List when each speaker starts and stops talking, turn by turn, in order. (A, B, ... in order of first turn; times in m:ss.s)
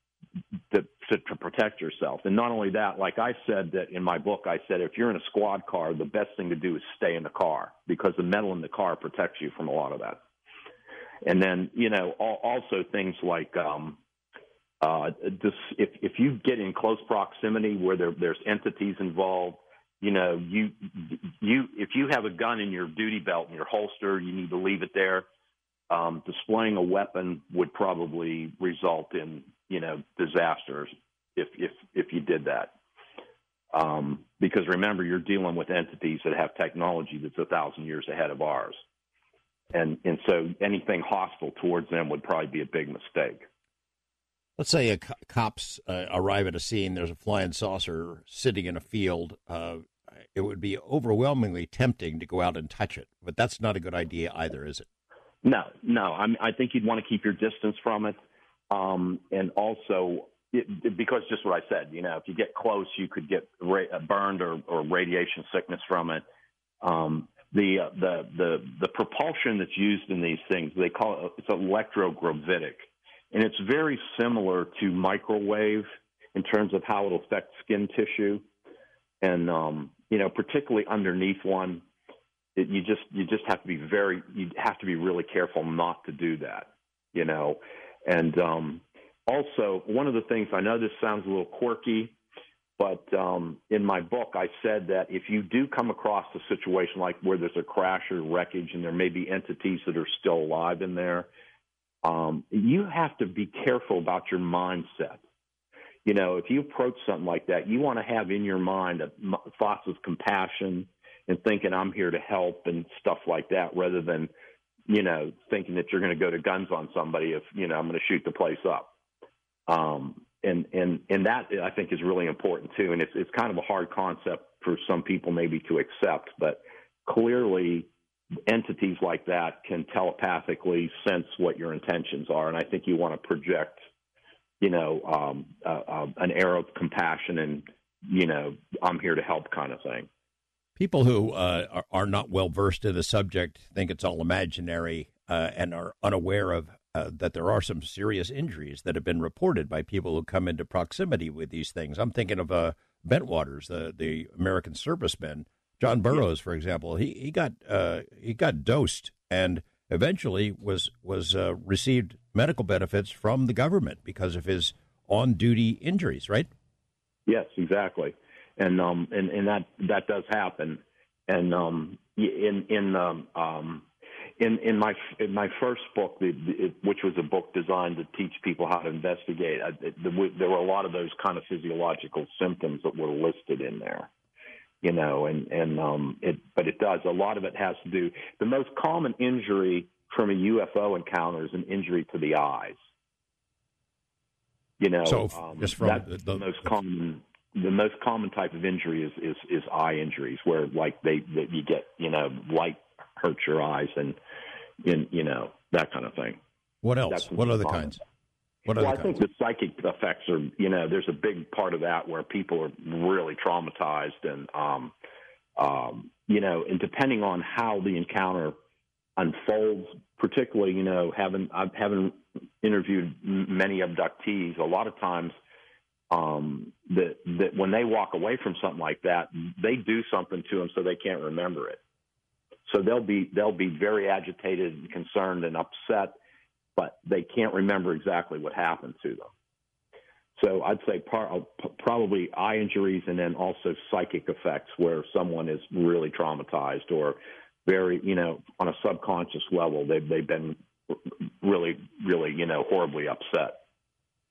0:00.7-0:10.2 A
0:11.2-0:14.0 A
0:14.8-0:25.3 A
0:25.9-0:32.8 A
0:33.7-0:38.8 A
0:39.7-0:43.5 A
0:44.6-0:54.9 B
0:55.4-0:58.2 A
0:58.7-1:06.2 A
1:06.8-1:18.4 A
1:19.2-1:21.8 A
1:22.6-1:32.2 A
1:32.8-1:41.3 A
1:42.0-1:45.2 A
1:46.0-1:54.3 A
1:54.9-1:58.9 A
1:59.7-2:07.9 A
2:08.5-2:13.8 A
2:14.6-2:20.1 A
2:20.8-2:46.5 B
2:47.3-2:53.9 A
2:54.4-3:04.1 A
3:04.8-3:12.8 A
3:14.8-3:24.2 A
3:15.1-3:16.5 B
3:24.8-3:26.4 A
3:26.8-3:28.0 B
3:27.1-3:28.0 A
3:28.7-3:29.2 B
3:28.8-3:34.9 A
3:35.6-3:38.6 A
3:39.2-3:45.3 A
3:46.1-3:51.8 A
3:52.7-3:56.2 A
3:56.8-3:59.3 A
4:00.4-4:13.6 A